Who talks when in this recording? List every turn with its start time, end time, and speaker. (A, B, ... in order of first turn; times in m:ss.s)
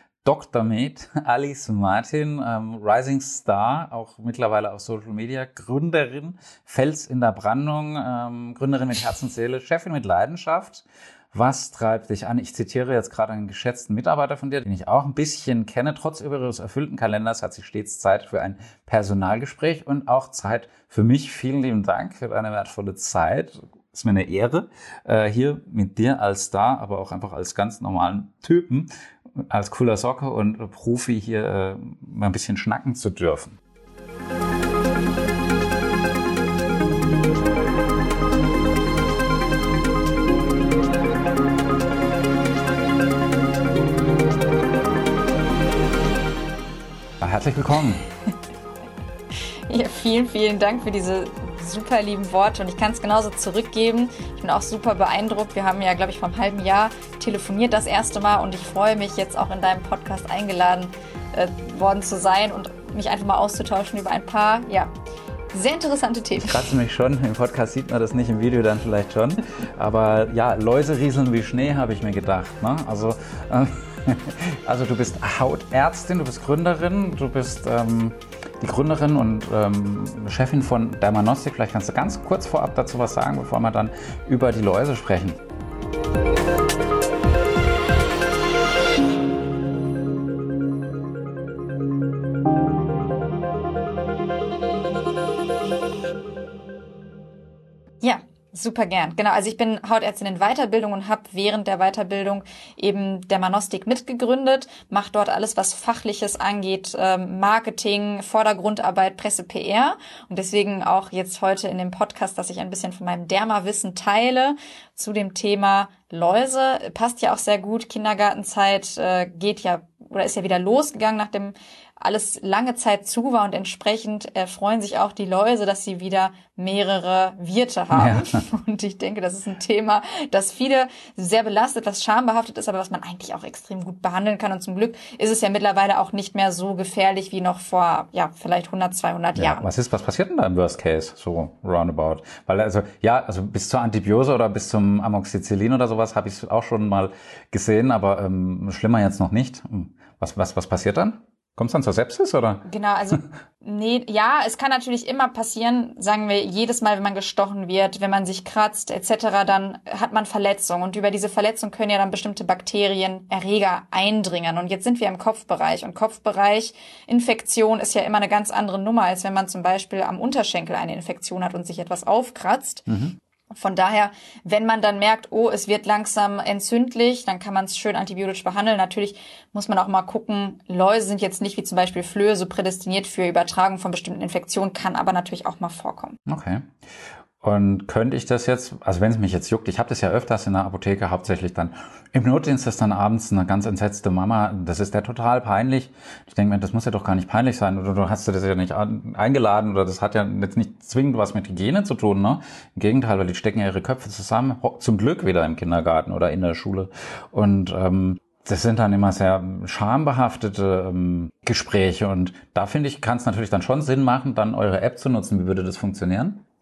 0:00.2-0:28.9 A
0:29.5-0:33.6 A
0:47.2-0:48.1 A
0:49.7-1:04.9 B
1:05.5-1:06.7 B
1:06.4-1:25.4 A
1:38.0-2:19.6 B
2:07.9-2:08.2 A
2:19.3-2:33.2 A
2:32.6-2:52.8 B
2:52.9-2:53.2 A
2:53.5-3:06.2 B
3:06.3-3:06.7 A
3:07.4-3:36.4 A